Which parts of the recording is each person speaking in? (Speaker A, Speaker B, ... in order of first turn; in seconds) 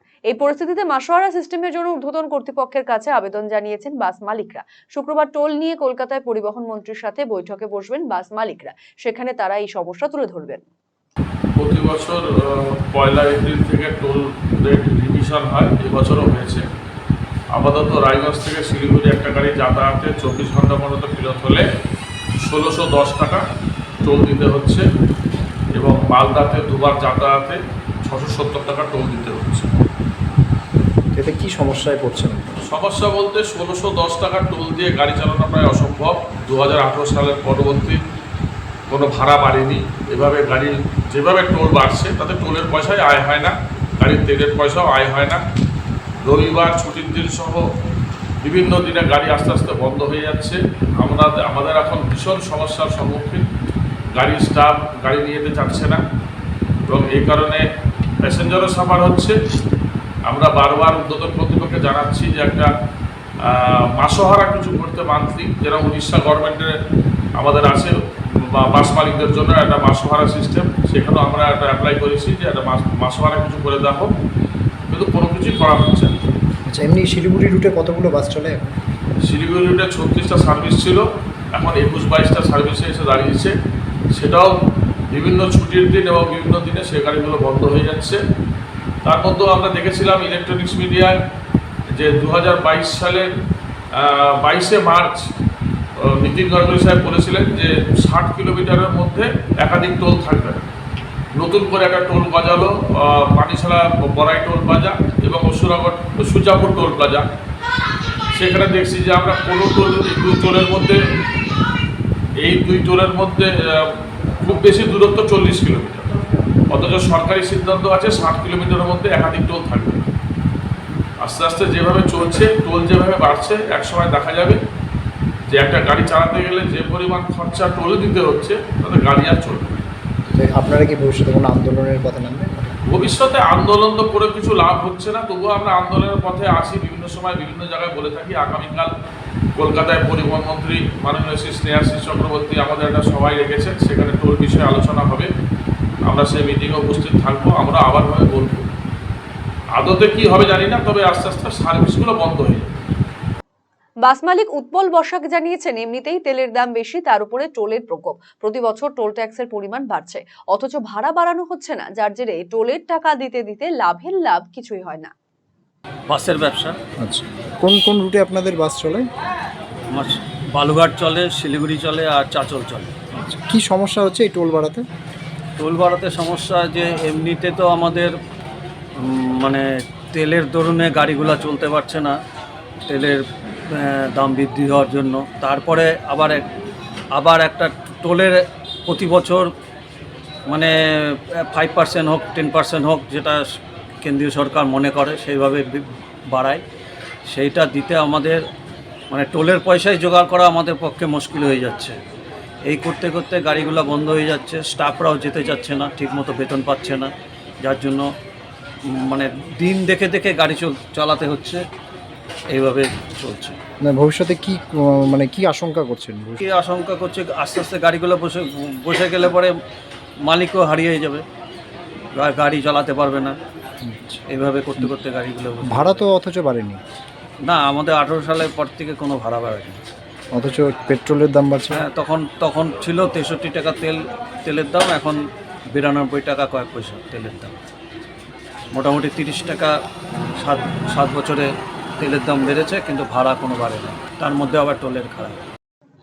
Speaker A: 0.3-10.7, 154.1-165.1
Speaker B: 11.6-16.6, 17.5-21.6, 22.4-23.4, 24.0-24.9, 25.8-29.7, 32.7-38.0, 38.9-45.4, 46.2-47.6, 48.4-53.5, 54.1-56.0, 56.9-57.6, 58.2-59.4, 60.3-62.7, 63.4-66.7, 67.4-74.1, 74.9-76.2, 79.2-83.5, 84.1-84.5, 85.1-88.2, 89.0-91.2, 91.9-93.3, 93.9-95.3, 96.0-100.7, 101.4-107.3, 108.3-111.0, 112.4-116.2, 116.7-120.1, 121.2-124.6, 125.5-129.8, 132.9-138.9, 139.6-145.3, 146.1-148.7, 149.8-152.7
Speaker C: 31.1-32.5, 76.7-78.7, 130.3-132.8, 167.0-169.1, 173.1-174.8, 213.8-216.4, 223.8-224.2, 225.6-226.8, 230.3-231.8
Speaker D: 166.1-166.8, 169.9-172.9, 175.6-178.2, 179.0-182.2, 182.9-186.5, 187.1-189.5, 190.5-193.4, 194.0-196.6, 197.3-198.4, 199.1-202.0, 202.7-207.1, 207.6-208.1, 208.9-211.6, 212.5-213.6, 216.4-219.5, 220.2-221.2, 222.1-223.4, 224.3-226.0, 227.4-229.8, 231.7-235.2, 235.7-237.6, 238.7-239.7, 240.4-245.4